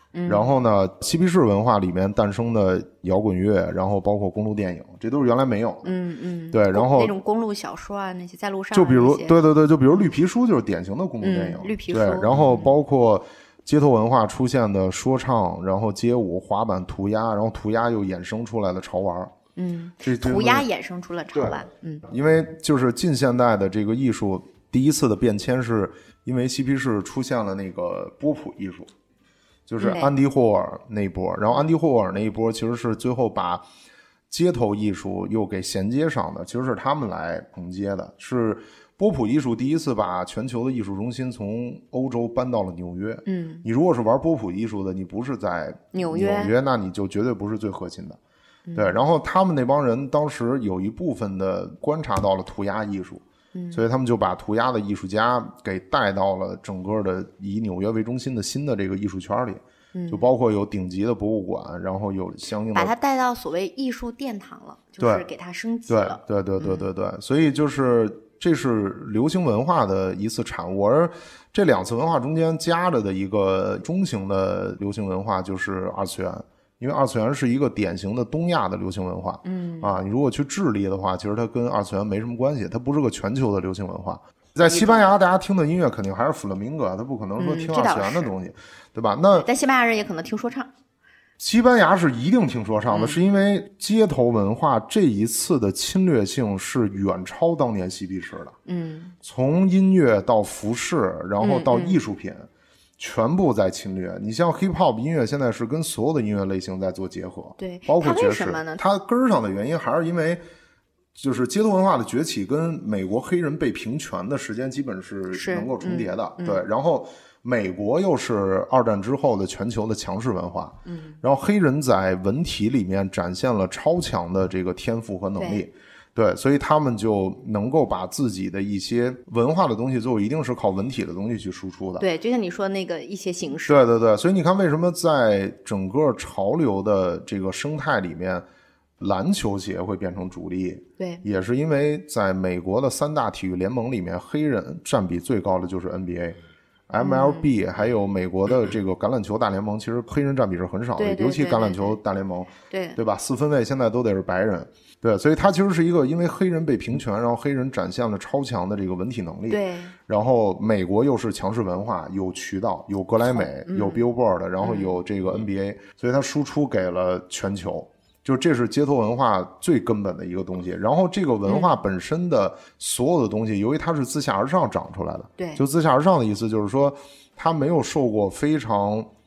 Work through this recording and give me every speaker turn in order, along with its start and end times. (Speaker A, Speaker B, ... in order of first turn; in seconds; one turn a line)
Speaker A: 0.1-0.5
Speaker B: 0.3-6.0
Speaker A: 5.8-9.4
Speaker B: 6.5-7.1
Speaker B: 8.7-19.3
Speaker A: 11.2-12.7
Speaker A: 19.6-22.0
Speaker B: 20.0-20.7
Speaker B: 21.4-28.9
Speaker B: 29.7-33.6
Speaker A: 29.8-30.1
Speaker B: 34.3-48.2
Speaker A: 43.3-43.7
Speaker A: 45.9-46.5
Speaker A: 48.7-49.0
Speaker B: 48.8-62.9
Speaker A: 53.5-53.8
Speaker A: 59.9-60.3
Speaker A: 62.7-66.9
Speaker B: 65.0-65.2
Speaker B: 65.9-89.5
Speaker A: 79.4-80.0
Speaker A: 84.6-85.0
Speaker A: 87.4-88.3
Speaker A: 89.4-90.7
Speaker B: 91.4-98.5
Speaker A: 92.9-93.2
Speaker A: 98.7-99.1
Speaker B: 99.2-102.5
Speaker A: 101.4-102.0
Speaker B: 103.0-110.4
Speaker A: 107.6-108.8
Speaker B: 111.1-132.1
Speaker A: 115.3-116.6
Speaker A: 120.8-121.2
Speaker A: 125.4-125.6
Speaker A: 132.0-133.8
Speaker B: 133.7-138.4
Speaker B: 139.0-179.1
Speaker A: 141.0-141.2
Speaker A: 147.0-147.5
Speaker A: 151.0-152.0
Speaker A: 152.7-153.0
Speaker A: 159.5-159.9
Speaker A: 163.3-164.1
Speaker A: 164.6-165.0
Speaker A: 171.4-171.7
Speaker A: 175.4-175.6